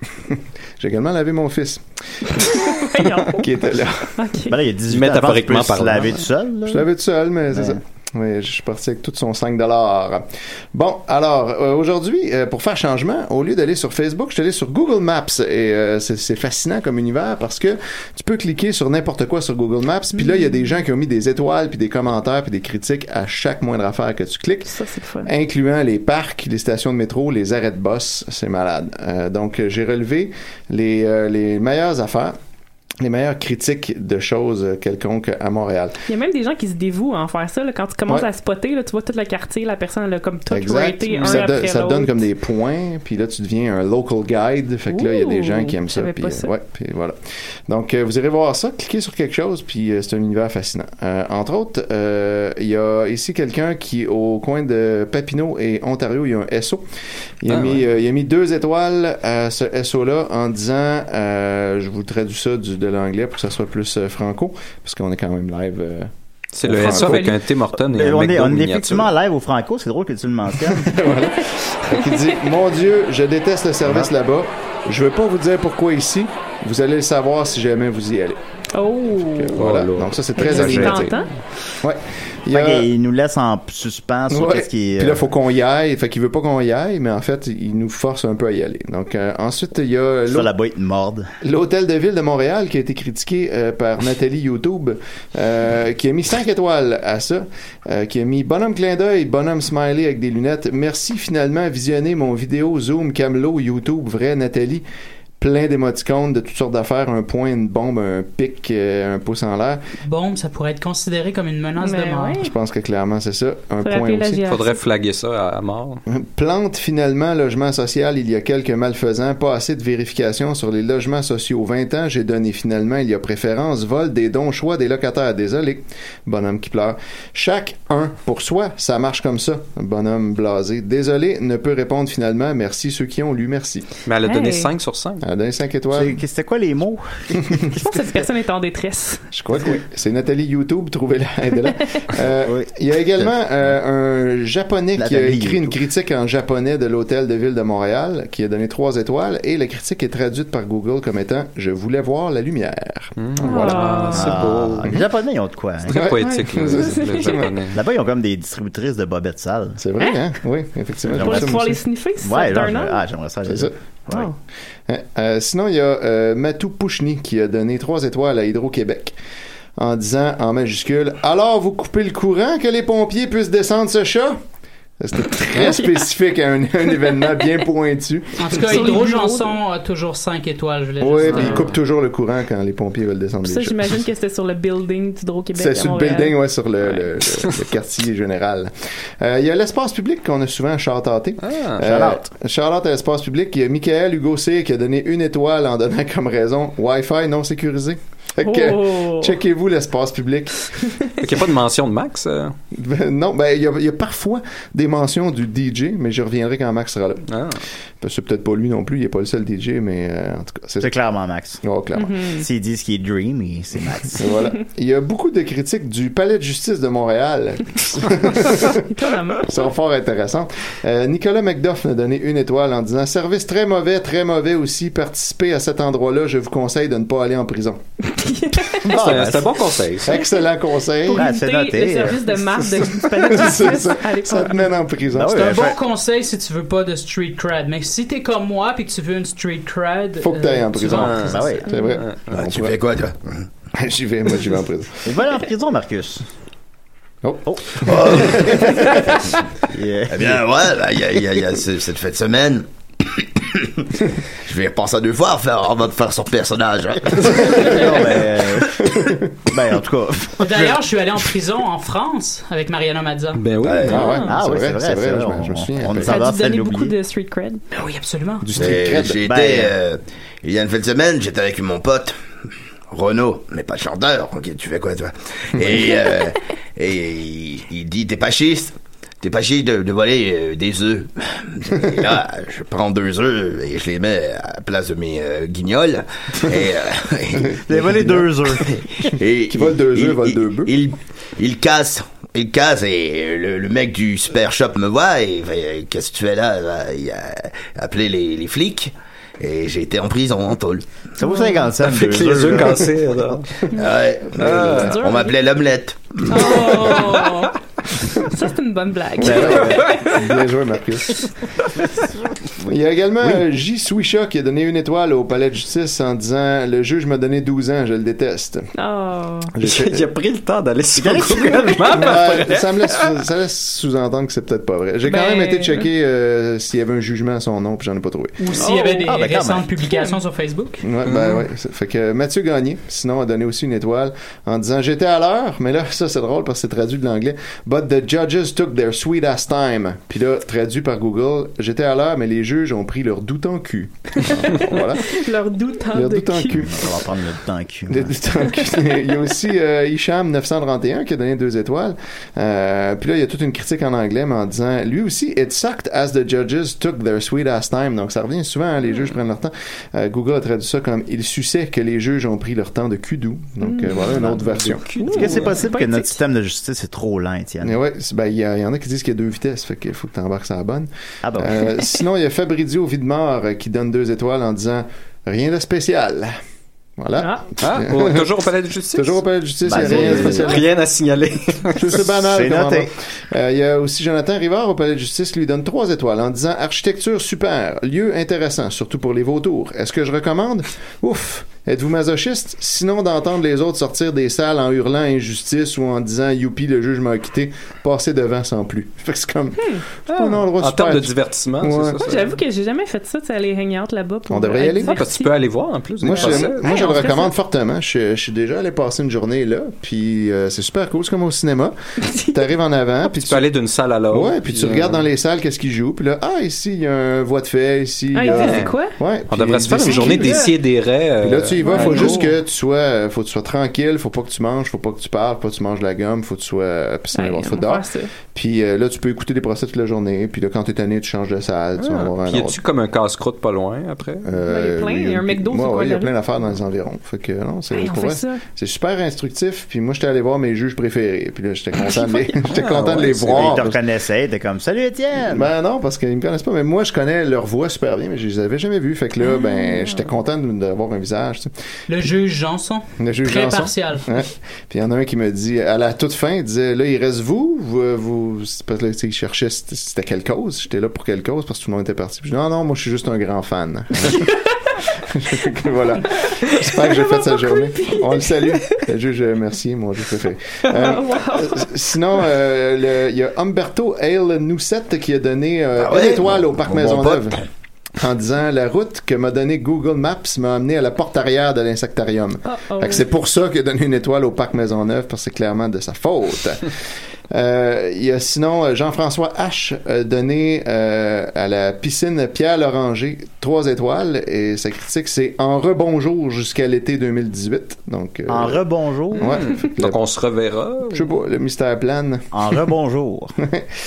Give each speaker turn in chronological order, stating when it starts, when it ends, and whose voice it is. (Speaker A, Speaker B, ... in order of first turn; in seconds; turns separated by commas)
Speaker A: 0.3-4.1, Speaker B: 2.4-3.5, Speaker B: 4.2-4.6, Speaker C: 4.5-6.9, Speaker D: 4.9-6.2, Speaker A: 6.7-24.7, Speaker C: 7.5-7.8, Speaker B: 20.2-20.5, Speaker B: 24.6-25.3, Speaker A: 25.2-32.4, Speaker A: 33.0-36.0, Speaker B: 36.1-42.2, Speaker A: 40.5-47.1, Speaker D: 41.1-41.4, Speaker B: 44.9-46.5, Speaker A: 47.7-56.8, Speaker A: 57.4-66.1, Speaker D: 57.5-57.8, Speaker D: 66.5-69.1, Speaker A: 66.7-67.3, Speaker B: 66.9-67.3, Speaker C: 67.8-70.9, Speaker A: 70.7-78.4, Speaker C: 73.8-74.1, Speaker B: 78.8-79.6, Speaker A: 79.3-81.2, Speaker D: 79.5-81.1, Speaker B: 80.3-81.3, Speaker A: 81.8-82.9, Speaker C: 82.5-85.2, Speaker A: 84.3-90.5, Speaker C: 90.3-91.3, Speaker A: 91.4-104.8, Speaker A: 105.4-109.8, Speaker E: 110.0-112.4, Speaker B: 111.8-112.5, Speaker A: 112.4-114.4, Speaker B: 113.8-114.8, Speaker D: 114.5-116.0, Speaker A: 116.1-133.9, Speaker D: 134.1-135.2, Speaker B: 134.2-134.7, Speaker A: 135.2-136.2, Speaker C: 135.9-137.4, Speaker A: 137.4-137.7, Speaker B: 137.8-139.2, Speaker A: 139.3-154.1, Speaker C: 142.4-143.3, Speaker C: 145.0-145.8, Speaker D: 153.2-154.9, Speaker B: 153.4-154.3, Speaker C: 154.1-156.0, Speaker D: 155.9-157.8, Speaker A: 155.9-157.5, Speaker B: 156.2-157.4, Speaker C: 157.7-159.8, Speaker A: 159.8-161.8, Speaker B: 161.1-163.0, Speaker C: 161.1-164.3, Speaker A: 163.4-163.7, Speaker A: 164.9-169.1, Speaker A: 169.8-174.4, Speaker A: 175.0-178.9, Speaker B: 175.5-176.1, Speaker B: 177.1-177.3, Speaker E: 178.4-181.7, Speaker B: 178.5-179.6, Speaker A: 181.0-184.0, Speaker B: 181.3-181.6, Speaker B: 183.4-187.1, Speaker A: 185.6-200.6, Speaker D: 191.4-191.8, Speaker C: 191.8-192.2, Speaker B: 198.4-199.4, Speaker B: 200.8-201.1, Speaker D: 201.2-202.6, Speaker A: 202.7-207.2, Speaker D: 207.3-207.6, Speaker A: 208.0-210.9, Speaker C: 210.8-211.6, Speaker A: 211.6-212.2, Speaker B: 211.9-212.4, Speaker C: 212.4-214.3, Speaker A: 214.2-227.8, Speaker B: 218.9-219.5, Speaker B: 228.1-228.9, Speaker D: 228.9-230.2, Speaker C: 228.9-229.5, Speaker A: 230.0-231.3, Speaker B: 231.0-234.7, Speaker C: 231.1-232.3, Speaker A: 232.9-235.6, Speaker C: 235.1-235.8, Speaker E: 235.3-241.5, Speaker A: 240.2-242.7, Speaker D: 240.9-242.4, Speaker C: 241.2-241.7, Speaker B: 241.7-242.0, Speaker F: 242.3-243.5, Speaker A: 243.7-245.1, Speaker C: 245.1-246.2, Speaker A: 247.2-249.2, Speaker C: 247.4-249.0, Speaker F: 247.8-248.5, Speaker C: 249.7-250.4, Speaker F: 250.1-258.2, Speaker C: 257.1-260.9, Speaker A: 257.3-257.8, Speaker A: 258.8-259.2, Speaker E: 260.4-263.4, Speaker D: 263.3-264.0, Speaker F: 263.6-264.0, Speaker A: 263.9-266.2, Speaker B: 263.9-264.3, Speaker C: 264.1-266.9, Speaker B: 266.0-267.6, Speaker E: 267.7-268.5, Speaker A: 268.4-269.2, Speaker F: 268.6-272.2, Speaker C: 269.2-269.7, Speaker F: 272.9-287.6, Speaker A: 287.5-288.2, Speaker C: 287.6-288.7, Speaker F: 288.6-300.9, Speaker A: 289.5-290.7, Speaker C: 301.2-303.0, Speaker B: 301.2-301.6, Speaker D: 301.8-303.5, Speaker F: 303.7-306.9, Speaker A: 304.4-304.8, Speaker D: 304.4-304.9, Speaker B: 304.8-305.3, Speaker B: 306.3-307.6, Speaker B: 308.1-309.9, Speaker A: 309.2-311.2, Speaker C: 309.2-309.8, Speaker A: 312.6-318.6, Speaker C: 313.2-313.4, Speaker B: 318.8-319.5, Speaker A: 319.5-320.1, Speaker D: 319.6-323.1, Speaker C: 320.9-322.1, Speaker A: 321.9-328.4, Speaker B: 325.0-325.9, Speaker E: 328.4-330.8, Speaker B: 328.6-329.2, Speaker C: 329.1-329.7, Speaker B: 329.8-330.2, Speaker A: 330.8-345.2, Speaker D: 331.1-331.4, Speaker B: 344.5-346.7, Speaker A: 345.9-346.7, Speaker C: 346.5-348.1, Speaker A: 347.9-364.9, Speaker B: 363.6-366.2, Speaker D: 364.1-365.7, Speaker C: 365.1-367.8, Speaker A: 367.6-376.3, Speaker C: 371.2-371.8, Speaker A: 377.0-378.3, Speaker B: 377.2-377.4, Speaker D: 377.6-381.9, Speaker A: 378.9-380.6, Speaker C: 379.6-380.6, Speaker B: 380.1-380.4, Speaker A: 381.8-402.0, Speaker C: 381.9-382.9, Speaker D: 400.1-402.3, Speaker B: 401.9-407.4, Speaker A: 404.3-404.9, Speaker D: 404.8-407.0, Speaker A: 406.0-413.4, Speaker B: 412.0-412.4, Speaker D: 413.1-415.0, Speaker A: 414.1-420.5, Speaker B: 418.1-419.0, Speaker D: 418.3-418.7, Speaker D: 419.3-422.2, Speaker B: 419.7-420.6, Speaker A: 421.2-432.6, Speaker B: 421.6-422.4, Speaker B: 427.1-428.1, Speaker D: 431.8-434.3, Speaker A: 434.2-443.8, Speaker B: 434.4-436.1, Speaker B: 437.7-438.4, Speaker B: 441.8-443.0, Speaker C: 442.5-445.5, Speaker A: 445.2-451.5, Speaker B: 449.2-450.0, Speaker E: 451.9-454.1, Speaker A: 453.0-464.3, Speaker A: 465.1-477.4, Speaker B: 466.5-468.8, Speaker B: 470.7-471.8, Speaker F: 475.8-477.4, Speaker A: 478.0-486.7, Speaker B: 482.5-483.1, Speaker A: 487.3-498.6, Speaker C: 498.3-499.3, Speaker A: 499.2-500.0, Speaker D: 499.2-501.1, Speaker A: 500.9-502.3, Speaker C: 502.3-503.3, Speaker A: 503.4-503.6